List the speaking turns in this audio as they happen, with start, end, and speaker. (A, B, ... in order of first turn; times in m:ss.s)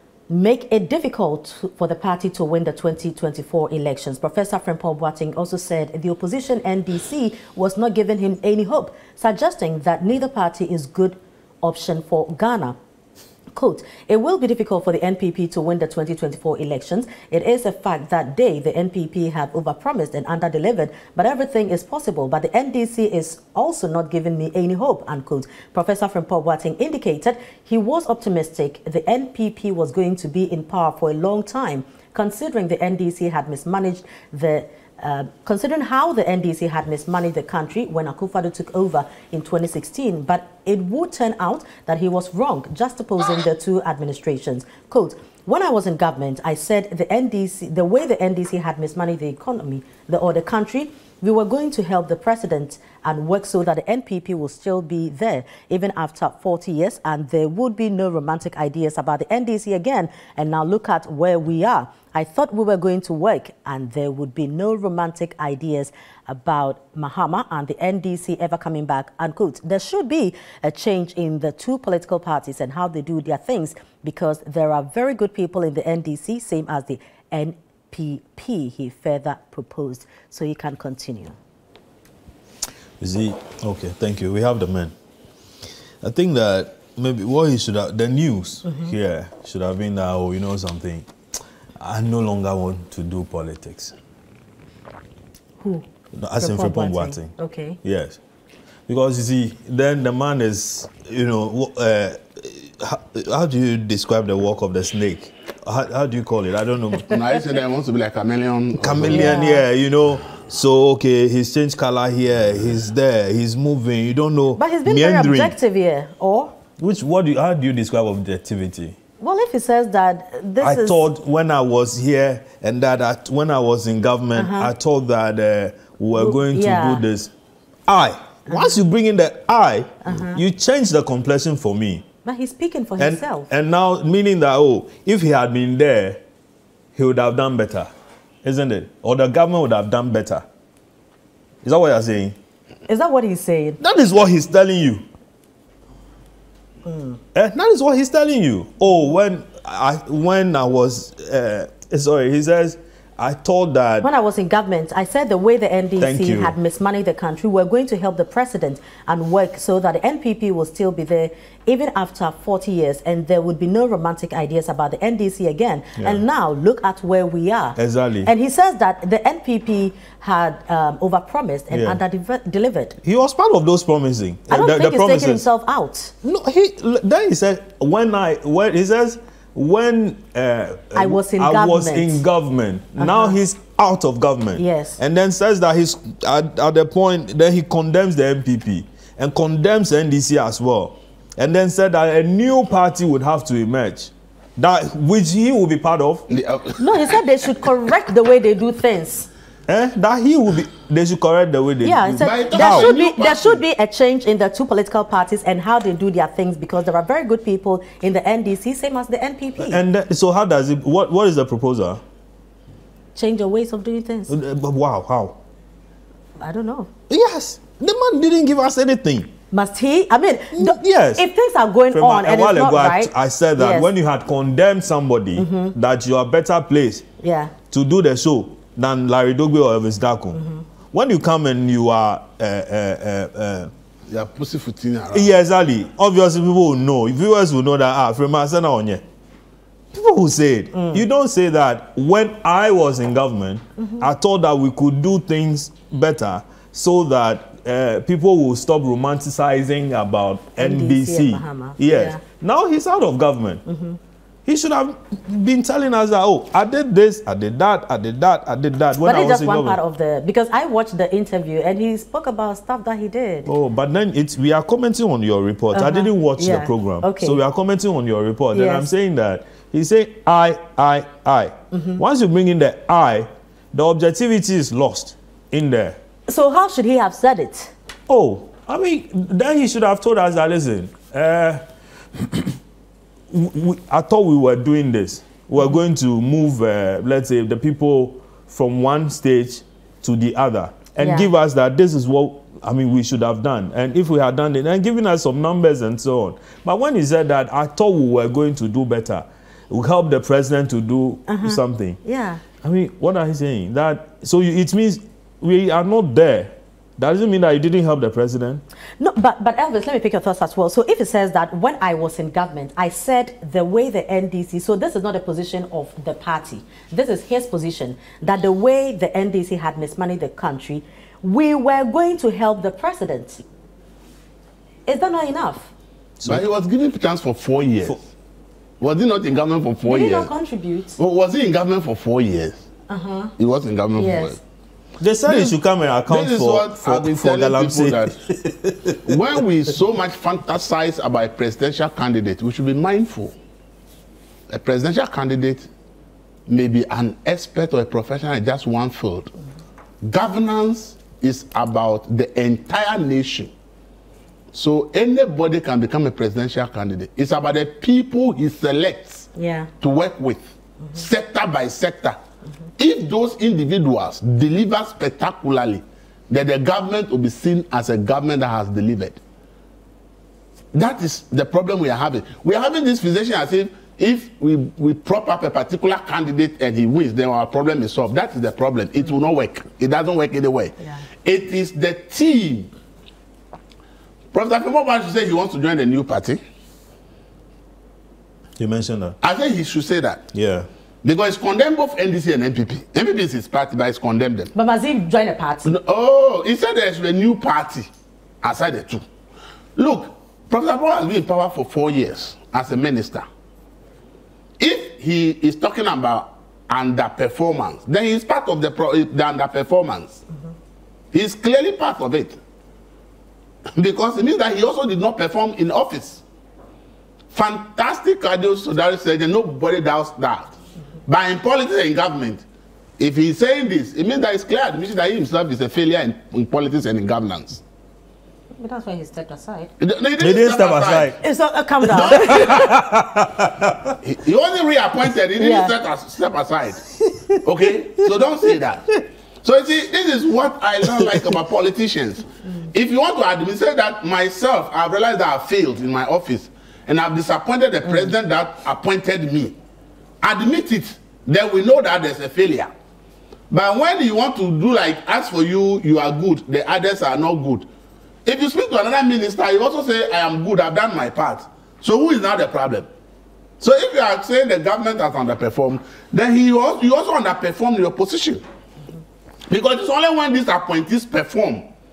0:00.3-0:12.8 A
0:13.5-1:21.4 A
1:23.0-1:24.9 B
1:26.0-1:31.1 B
1:28.6-1:28.9 A
1:31.8-1:33.9 B
1:35.6-1:35.8 A
1:36.1-1:38.2 B
1:36.4-1:37.8 A
1:38.9-1:47.4 B
1:47.1-1:49.4 C
1:48.7-1:55.6 B
1:49.1-1:49.6 A
1:54.6-1:56.5 A
1:56.8-1:58.9 B
1:59.2-2:01.0 A
2:00.6-2:07.3 B
2:04.3-2:04.7 A
2:06.2-2:07.0 A
2:07.9-2:12.0 B
2:08.5-2:08.8 A
2:10.0-2:10.4 A
2:12.2-2:13.5 A
2:13.0-2:16.2 B
2:16.9-2:17.9 B
2:18.4-2:20.4 B
2:21.6-2:22.4 B
2:22.9-2:23.8 A
2:23.8-2:25.0 B
2:26.8-2:27.2 A
2:27.3-2:34.1 B
2:34.0-2:53.0 A
2:36.0-2:36.5 B
2:47.8-2:48.3 B
2:51.7-2:52.0 B
2:53.0-2:55.4 B
2:54.5-2:56.1 A
2:56.2-3:16.3 B
3:00.9-3:02.2 A
3:03.0-3:03.4 A
3:04.6-3:05.0 A
3:16.3-3:17.2 C
3:16.8-3:19.3 A
3:19.7-3:22.9 B
3:21.8-3:29.8 A
3:22.2-3:23.6 C
3:29.6-3:32.0 B
3:33.1-3:34.3 A
3:34.3-3:35.4 B
3:36.4-3:36.9 A
3:37.1-3:39.3 B
3:39.5-3:43.9 A
3:40.5-3:41.2 B
3:41.9-3:47.0 B
3:45.4-3:45.7 A
3:47.2-3:47.5 A
3:47.7-3:50.4 B
3:50.3-3:50.6 A
3:50.9-3:53.7 B
3:54.1-3:55.3 C
3:55.1-3:59.0 B
3:59.9-4:13.6 B
4:00.7-4:01.0 A
4:03.8-4:04.0 A
4:10.6-4:12.2 A
4:13.6-4:14.0 A
4:14.4-4:19.8 B
4:19.0-4:23.5 A
4:23.4-4:36.0 B
4:25.7-4:27.4 A
4:28.5-4:28.9 A
4:31.7-4:32.0 A
4:36.3-4:37.7 A
4:38.1-4:41.6 B
4:42.1-4:42.6 B
4:43.3-5:02.0 B
4:51.0-4:51.3 A
5:01.3-5:02.4 A
5:02.6-5:08.6 B
5:09.0-5:23.4 A
5:24.8-5:25.7 A
5:26.2-5:26.4 B
5:26.2-5:28.0 C
5:28.8-5:30.3 C
5:29.8-5:31.0 A
5:31.0-5:32.6 C
5:32.9-5:33.3 A
5:33.4-5:34.4 C
5:34.0-5:34.4 A
5:35.0-5:39.4 B
5:35.3-5:35.5 C
5:36.1-5:38.1 C
5:39.0-5:43.3 C
5:44.5-5:45.7 C
5:46.5-5:49.3 C
5:50.0-5:53.5 C
5:54.5-5:59.3 C
5:59.4-5:59.7 A
5:59.8-6:02.2 C
6:02.8-6:09.2 C
6:10.7-6:22.7 C
6:24.3-6:26.4 C
6:28.6-6:29.2 B
6:29.2-6:30.2 C
6:30.3-6:30.7 B
6:31.0-6:34.5 C
6:34.5-6:35.7 A
6:35.6-6:37.9 C
6:38.4-6:39.0 C
6:39.8-6:43.2 C
6:44.6-6:50.2 C
6:51.1-6:52.4 C
6:53.8-6:56.2 C
6:57.3-7:00.5 C
7:01.1-7:02.4 C
7:03.0-7:07.6 C
7:08.6-7:09.7 A
7:09.8-7:11.1 C
7:10.2-7:11.2 B
7:11.2-7:12.7 A
7:11.8-7:14.0 B
7:11.9-7:12.7 C
7:14.0-7:16.8 C
7:15.4-7:15.7 A
7:17.0-7:17.4 B
7:17.4-7:18.9 C
7:19.4-7:29.6 C
7:20.8-7:21.3 B
7:30.2-7:32.7 C
7:33.5-7:37.7 C
7:38.2-7:42.9 C
7:43.6-7:48.4 C
7:49.5-7:51.6 C